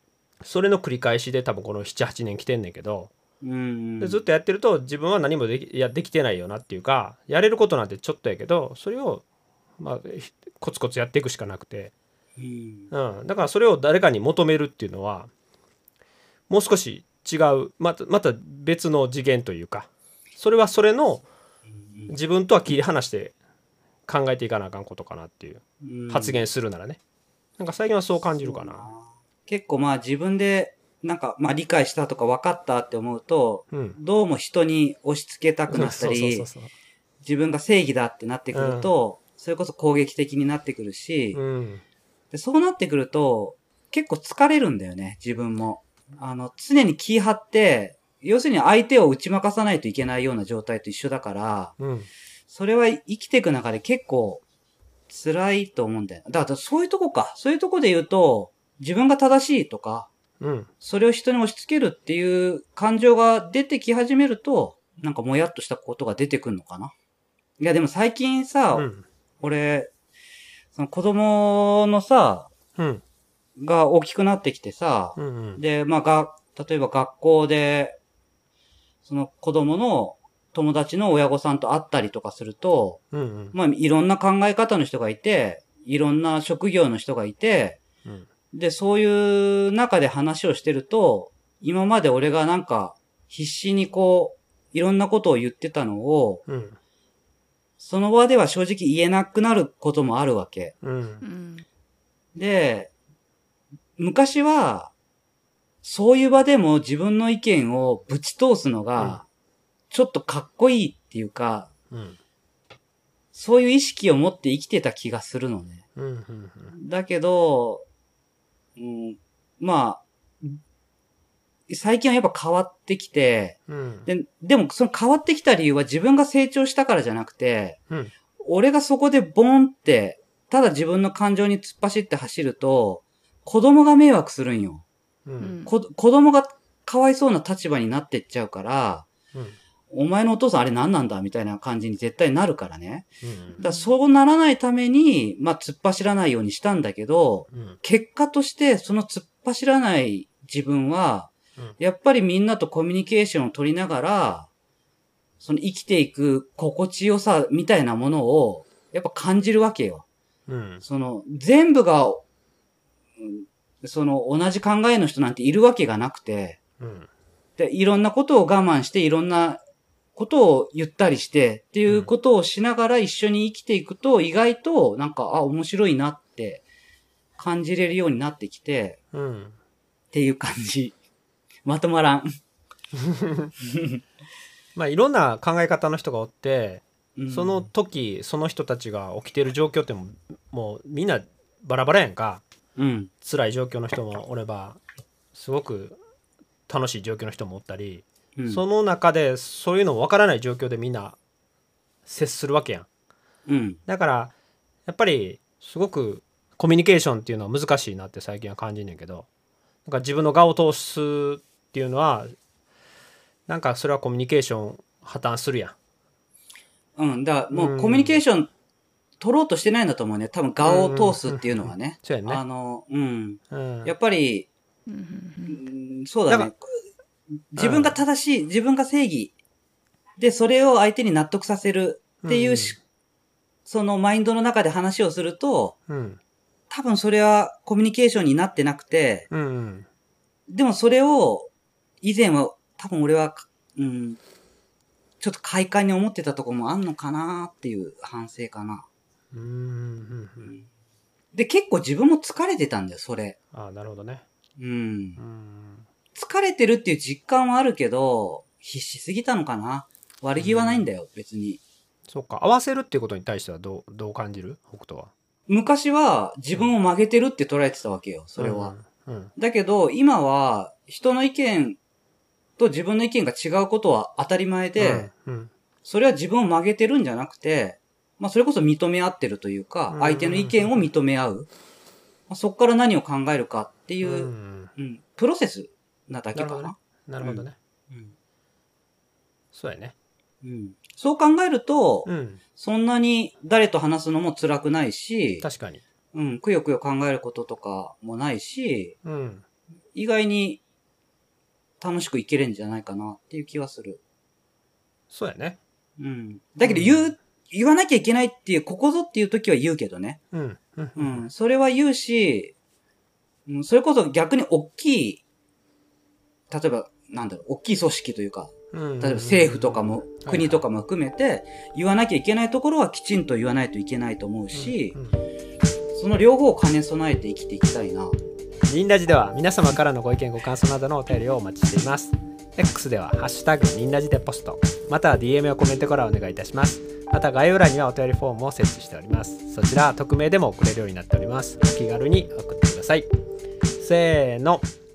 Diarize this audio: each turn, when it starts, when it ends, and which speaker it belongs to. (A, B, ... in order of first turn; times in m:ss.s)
0:00.4-0:03.1 A
0:03.4-0:04.2 B
0:04.0-0:09.2 A
0:09.8-0:11.9 A
0:12.4-0:12.9 B
0:12.9-0:15.3 A
0:16.5-0:21.2 A
0:21.7-0:22.1 B
0:22.1-0:23.3 A
0:24.1-0:27.0 A
0:25.8-0:26.4 B
0:27.6-0:28.9 A
0:28.4-0:36.5 B
0:33.7-0:34.0 A
0:35.7-0:36.7 A
0:37.2-0:41.4 B
0:38.5-0:38.9 A
0:41.3-0:41.8 A
0:42.3-0:51.7 B
0:51.8-0:52.1 A
0:52.5-0:54.4 B
0:55.1-1:00.1 B
1:00.4-1:00.7 A
1:00.8-1:06.9 B
1:07.6-1:08.9 B
1:08.7-1:09.0 A
1:09.4-1:09.9 B
1:10.7-1:12.5 B
1:12.8-1:13.0 A
1:13.6-1:18.0 B
1:15.2-1:15.6 A
1:19.0-1:23.0 B
1:23.1-1:23.5 A
1:23.5-1:27.8 B
1:28.5-1:36.4 B
1:36.5-1:36.8 A
1:37.8-1:40.7 B
1:40.8-1:41.2 A
1:41.2-1:41.6 C
1:42.3-1:42.9 B
1:44.0-1:44.9 B
1:45.8-1:49.2 B
1:49.9-1:51.7 B
1:51.9-1:52.2 A
1:53.3-1:55.8 B
1:56.0-1:56.7 A
1:56.7-1:57.8 B
1:58.8-2:00.6 B
2:01.7-2:07.8 B
2:03.7-2:04.1 A
2:08.4-2:14.8 B
2:15.2-2:15.5 A
2:15.4-2:15.7 C
2:15.6-2:19.1 B
2:19.9-2:23.1 B
2:23.2-2:23.6 A
2:23.6-2:23.9 C
2:23.6-2:34.5 B
2:27.5-2:27.8 A
2:35.4-2:40.0 B
2:40.5-2:40.8 A
2:40.8-2:42.2 B
2:43.2-2:46.6 B
2:46.8-2:47.1 A
2:47.6-2:49.6 B
2:50.2-2:56.6 B
2:57.4-2:59.0 B
2:59.1-2:59.6 A
3:00.1-3:00.9 B
3:01.6-3:02.3 B
3:02.9-3:03.5 A
3:03.6-3:04.0 B
3:04.8-3:12.4 A
3:07.2-3:07.7 B
3:12.8-3:13.1 B
3:13.2-3:14.8 A
3:15.3-3:16.0 A
3:16.7-3:21.2 A
3:18.4-3:18.6 B
3:22.0-3:22.9 A
3:23.5-3:23.8 B
3:23.9-3:24.3 A
3:24.8-3:29.3 A
3:29.8-3:32.3 A
3:33.5-3:35.7 A
3:37.0-3:38.5 B
3:37.5-3:38.2 A
3:39.2-3:44.5 B
3:40.6-3:42.4 A
3:43.5-3:43.9 A
3:44.9-3:45.6 C
3:45.5-3:46.6 B
3:47.5-3:49.3 B
3:47.6-3:48.0 A
3:50.2-3:52.8 B
3:52.2-3:52.8 A
3:53.6-3:55.7 B
3:55.9-3:56.2 A
3:56.7-3:59.3 B
3:59.3-3:59.9 A
4:00.5-4:01.5 B
4:02.0-4:04.2 B
4:05.2-4:08.8 B
4:09.3-4:10.5 A
4:11.3-4:13.4 B
4:13.5-4:14.2 A
4:14.6-4:15.2 B
4:15.2-4:15.8 A
4:16.1-4:21.6 B
4:20.4-4:20.9 A
4:22.1-4:25.1 A
4:25.5-4:28.7 B
4:28.4-4:29.3 A
4:29.4-4:31.8 B
4:32.6-4:35.1 B
4:34.8-4:35.5 A
4:35.8-4:41.5 B
4:39.9-4:40.7 A
4:42.3-4:48.1 B
4:44.0-4:44.7 A
4:46.3-4:47.6 A
4:49.5-4:49.9 A
4:50.4-4:55.4 B
4:52.0-4:52.4 A
4:55.4-4:55.8 A
4:56.1-4:58.9 B
4:59.0-4:59.4 A
4:59.9-5:00.6 B
5:01.8-5:04.0 B
5:05.1-5:05.6 A
5:06.0-5:10.2 B
5:06.6-5:07.1 A
5:10.3-5:11.2 A
5:11.0-5:12.5 B
5:13.5-5:15.2 B
5:16.5-5:25.0 B
5:18.7-5:20.6 A
5:24.5-5:25.2 A
5:25.9-5:28.2 B
5:28.7-5:43.1 A
5:43.8-5:44.6 A